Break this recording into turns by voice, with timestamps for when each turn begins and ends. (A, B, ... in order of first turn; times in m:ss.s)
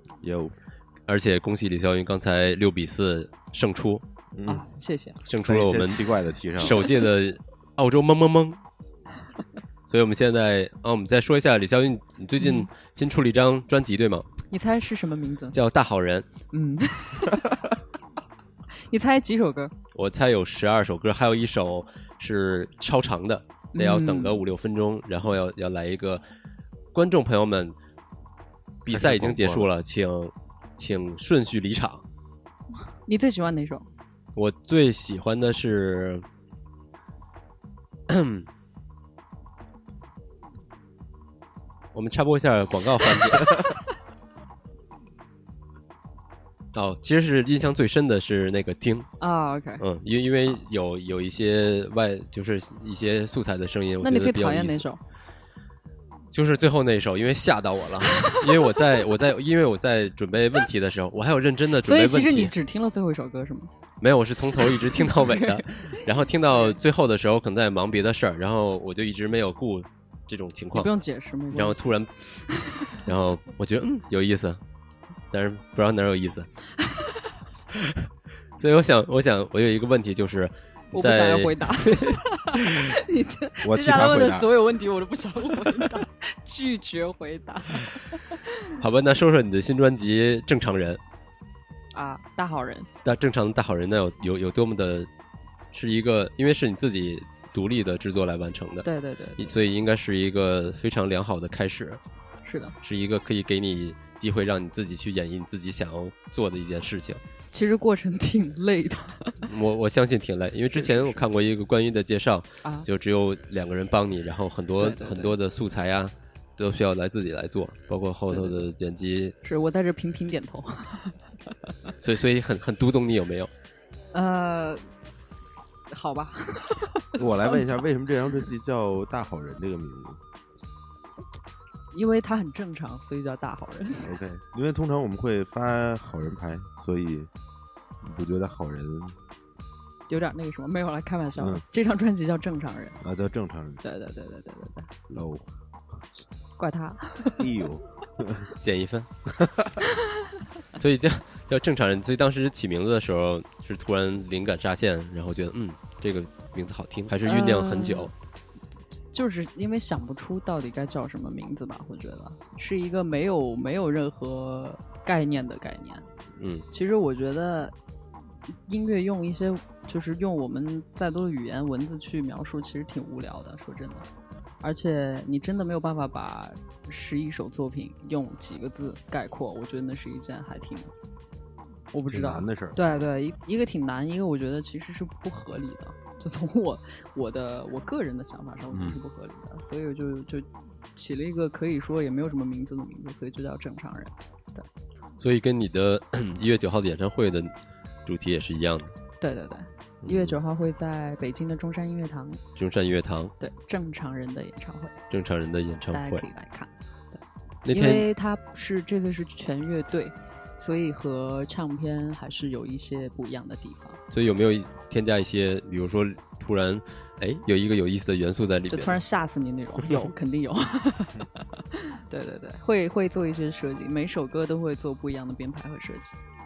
0:00.2-0:00.5 A
0:01.1-0:04.0 B
0:04.3-0:04.7 A
0:04.5-0:05.2 C
0:05.2-0:08.6 B
0:05.4-0:06.8 A
0:09.9-0:14.3 B
0:12.4-0:12.7 C
0:14.5-0:15.6 C
0:15.5-0:16.3 B
0:16.5-0:17.7 C
0:18.8-0:19.7 C
0:19.9-0:26.2 B
0:23.7-0:24.4 C
0:26.9-0:27.8 B
0:28.8-0:32.0 B
0:28.9-0:29.7 A
0:32.9-0:33.9 C
0:34.4-0:36.2 B
0:38.1-0:38.5 B
0:41.9-0:43.6 B
0:43.5-0:43.8 C
0:46.7-0:49.1 B
0:49.2-0:49.8 C
0:49.8-0:54.9 B
0:54.0-0:55.0 C
0:56.3-1:02.5 B
0:58.2-0:58.7 C
1:01.8-1:03.7 C
1:04.0-1:10.9 B
1:04.4-1:06.8 C
1:10.7-1:13.0 C
1:11.5-1:12.1 B
1:12.9-1:14.6 B
1:15.3-1:16.5 B
1:16.8-1:17.4 C
1:17.7-1:18.1 B
1:18.6-1:22.2 B
1:20.9-1:28.8 C
1:23.6-1:24.5 A
1:28.8-1:31.0 B
1:31.9-1:32.9 C
1:33.0-1:35.1 B
1:35.7-1:38.9 B
1:38.8-1:39.5 C
1:39.4-1:42.0 B
1:42.4-1:42.8 C
1:42.8-1:47.2 B
1:47.5-1:49.5 C
1:49.5-1:59.4 B
1:50.8-1:51.2 C
1:54.8-1:55.4 C
1:58.3-1:58.7 C
1:59.4-2:01.9 C
2:02.0-2:03.5 B
2:04.1-2:04.8 C
2:05.9-2:07.6 C
2:07.2-2:10.2 A
2:11.9-2:14.2 C
2:14.0-2:17.3 A
2:18.0-2:19.2 A
2:20.1-2:23.0 C
2:21.4-2:21.6 A
2:23.0-2:23.8 A
2:23.8-2:24.9 C
2:25.1-2:25.5 A
2:26.6-2:27.5 C
2:27.4-2:28.5 A
2:28.6-2:29.1 B
2:29.3-2:29.8 A
2:30.8-2:38.1 B
2:37.2-2:38.1 C
2:39.1-2:46.1 C
2:46.4-2:46.6 B
2:46.7-2:47.7 C
2:48.7-2:54.1 C
2:54.6-3:00.9 C
3:01.9-3:14.7 C
3:02.1-3:02.8 A
3:08.7-3:09.0 A
3:15.2-3:17.5 B
3:18.1-3:18.9 B
3:19.2-3:22.4 C
3:20.0-3:20.4 A
3:22.6-3:23.3 B
3:23.4-3:25.0 C
3:25.1-3:26.2 B
3:25.9-3:34.0 C
3:27.7-3:28.1 B
3:34.1-3:39.0 B
3:38.7-3:46.2 C